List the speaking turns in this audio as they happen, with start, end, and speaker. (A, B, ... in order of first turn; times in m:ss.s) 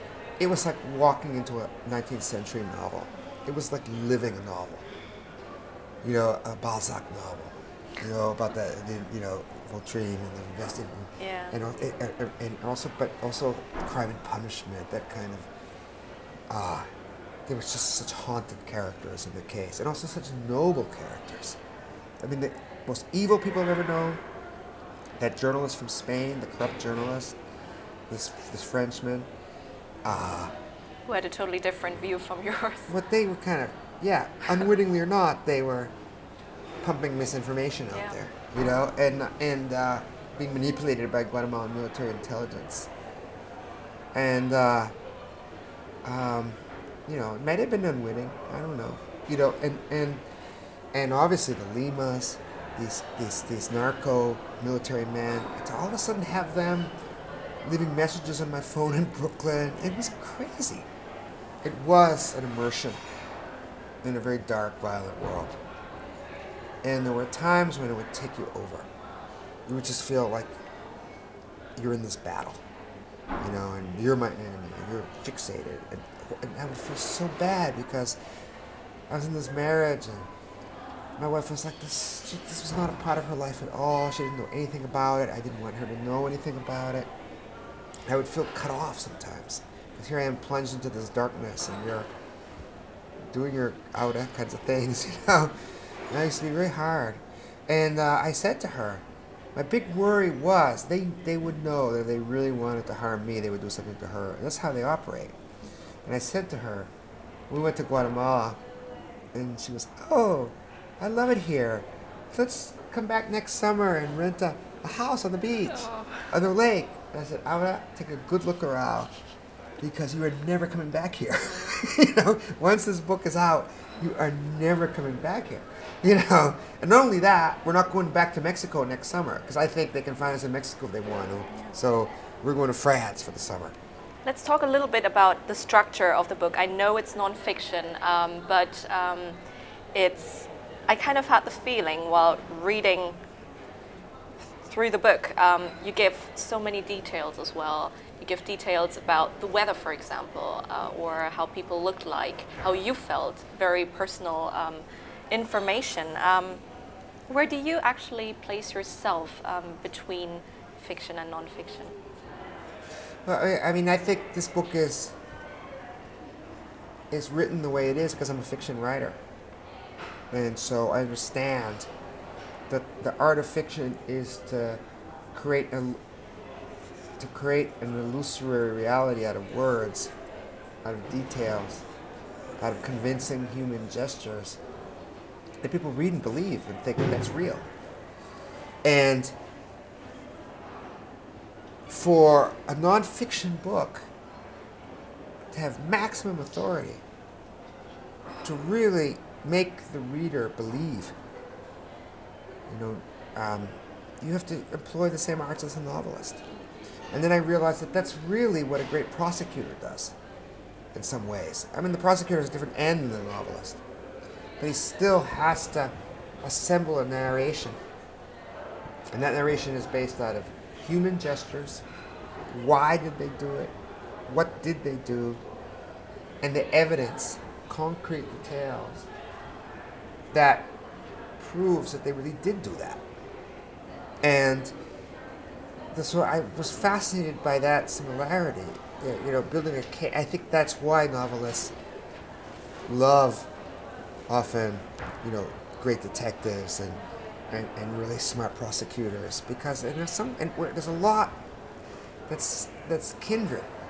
0:00.4-0:04.9 A
0:06.0-0:15.5 A
0:11.2-0:11.6 B
0:16.5-0:16.9 A
0:17.5-0:21.6 A
0:22.2-0:24.2 A
0:25.2-0:27.4 A
0:28.1-0:29.3 A
0:30.0-0:30.6 A
0:31.1-0:32.9 B
0:32.9-0:35.9 A
0:36.8-0:42.9 A
0:37.9-0:38.2 B
0:44.1-0:44.9 A
0:46.0-0:50.2 A
0:50.9-0:56.9 A
0:57.6-1:00.9 A
1:01.6-1:03.0 A
1:04.0-1:05.6 A
1:06.8-1:08.9 A
1:09.7-1:10.6 A
1:11.8-1:12.6 A
1:13.4-1:18.2 A
1:19.1-1:20.3 A
1:21.2-1:27.1 A
1:28.1-1:32.1 A
1:33.3-1:35.6 A
1:36.1-1:45.4 A
1:46.0-1:46.9 A
1:47.5-1:48.6 A
1:49.3-1:59.1 A
1:55.7-1:56.3 B
1:59.8-2:13.8 A
2:14.2-2:19.4 B
2:19.9-2:23.2 B
2:24.6-2:36.6 B
2:37.3-2:42.0 B
2:43.3-2:45.2 A
2:47.1-2:49.2 A
2:50.3-2:51.9 A
2:52.7-2:54.8 A
2:55.3-2:56.0 A
2:57.2-3:00.1 A
3:00.8-3:01.8 A
3:02.6-3:04.6 A
3:05.6-3:07.7 A
3:08.8-3:09.4 A
3:11.9-3:14.1 A
3:15.5-3:17.0 A
3:18.4-3:21.2 A
3:22.7-3:26.4 A
3:27.1-3:30.2 A
3:30.9-3:33.8 A
3:34.6-3:37.8 A
3:39.1-3:41.8 A
3:42.5-3:43.8 A
3:44.3-3:45.4 A
3:46.4-3:49.1 A
3:50.3-3:50.7 A
3:51.4-3:53.0 A
3:54.2-3:54.8 A
3:55.9-4:01.7 A
4:02.9-4:03.5 A
4:04.3-4:11.4 A
4:12.3-4:13.7 A